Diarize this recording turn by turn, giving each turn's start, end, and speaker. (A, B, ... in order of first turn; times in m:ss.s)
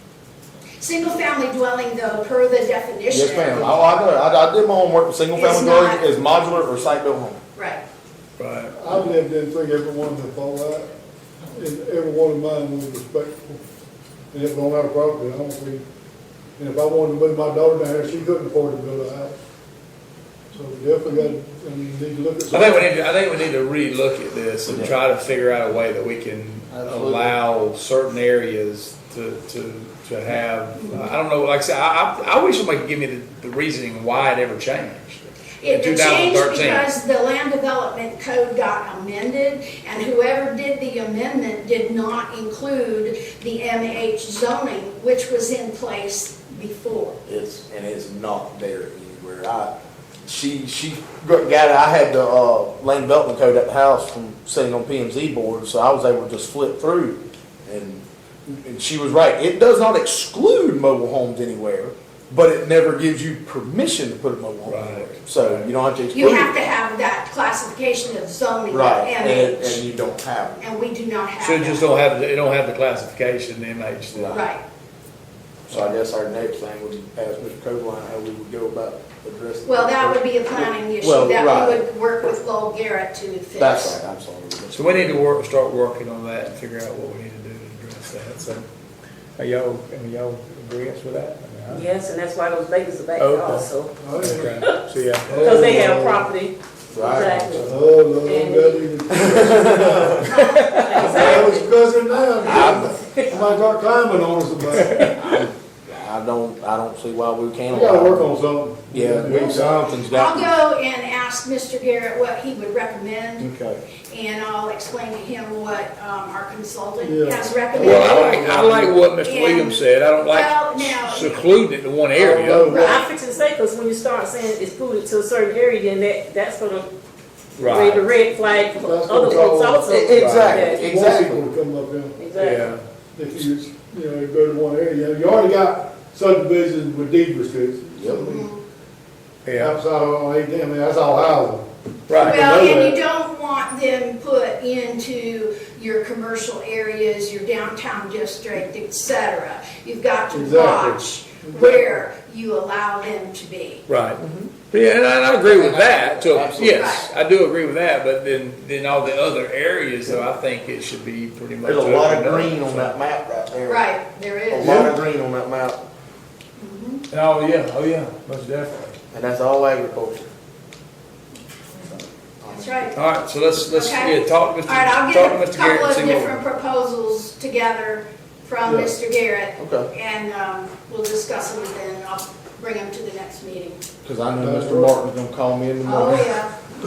0:00.8-0:03.7 A
0:03.1-0:07.4 B
0:05.3-0:06.0 A
0:07.5-0:07.8 A
0:08.4-0:08.8 C
0:08.8-0:10.9 D
0:11.5-0:13.6 D
0:14.3-0:15.8 D
0:16.6-0:19.3 D
0:20.5-0:22.9 D
0:22.5-0:36.9 C
0:24.7-0:24.9 B
0:26.7-0:27.3 B
0:30.7-0:31.2 A
0:35.6-0:47.2 A
0:47.2-0:49.7 B
0:50.2-1:06.7 B
1:04.6-1:05.7 C
1:06.1-1:09.8 A
1:08.7-1:10.6 B
1:10.6-1:11.9 A
1:11.4-1:14.4 C
1:14.1-1:14.4 B
1:14.3-1:14.6 A
1:15.7-1:21.8 B
1:19.6-1:24.0 A
1:23.6-1:25.2 B
1:24.7-1:28.6 C
1:29.4-1:31.9 C
1:31.7-1:34.0 E
1:33.2-1:33.7 C
1:34.0-1:34.6 D
1:34.2-1:35.8 C
1:35.3-1:36.3 D
1:35.3-1:38.9 E
1:36.9-1:37.7 B
1:37.6-1:40.3 D
1:39.1-1:40.2 B
1:40.2-1:41.5 A
1:40.3-1:43.4 E
1:40.9-1:45.0 D
1:42.4-1:43.0 B
1:44.7-1:45.4 C
1:45.2-1:48.3 B
1:47.7-1:49.8 D
1:48.9-1:50.5 B
1:49.3-1:53.5 A
1:53.4-1:53.8 B
1:54.1-1:58.5 A
1:57.0-1:58.9 D
1:57.7-2:02.8 C
1:59.2-2:01.4 A
2:02.1-2:03.0 D
2:02.6-2:06.9 E
2:02.7-2:03.0 A
2:07.6-2:08.0 C
2:07.6-2:10.9 E
2:08.5-2:09.9 D
2:09.8-2:11.4 B
2:10.1-2:10.6 C
2:10.8-2:12.2 D
2:12.2-2:12.7 E
2:12.4-2:12.8 C
2:13.1-2:18.4 D
2:18.0-2:18.3 B
2:18.2-2:18.6 A
2:19.4-2:19.8 C
2:19.5-2:23.0 D
2:22.1-2:22.5 C
2:22.2-2:33.8 A
2:30.3-2:32.0 D
2:33.9-2:42.9 C
2:34.2-2:34.5 B
2:35.4-2:37.0 B
2:36.6-2:37.1 A
2:41.6-2:43.9 B
2:43.7-2:44.8 A
2:44.5-2:45.8 B
2:44.6-2:44.9 D
2:46.6-2:47.0 A
2:47.1-2:49.0 C
2:49.1-2:50.3 B
2:52.4-2:52.9 B
2:52.5-2:53.0 A
2:52.9-2:56.4 C
2:53.7-3:03.8 A
2:58.6-2:58.9 D
2:59.6-2:59.9 B
3:04.0-3:06.3 B
3:04.4-3:05.0 D
3:05.8-3:06.5 A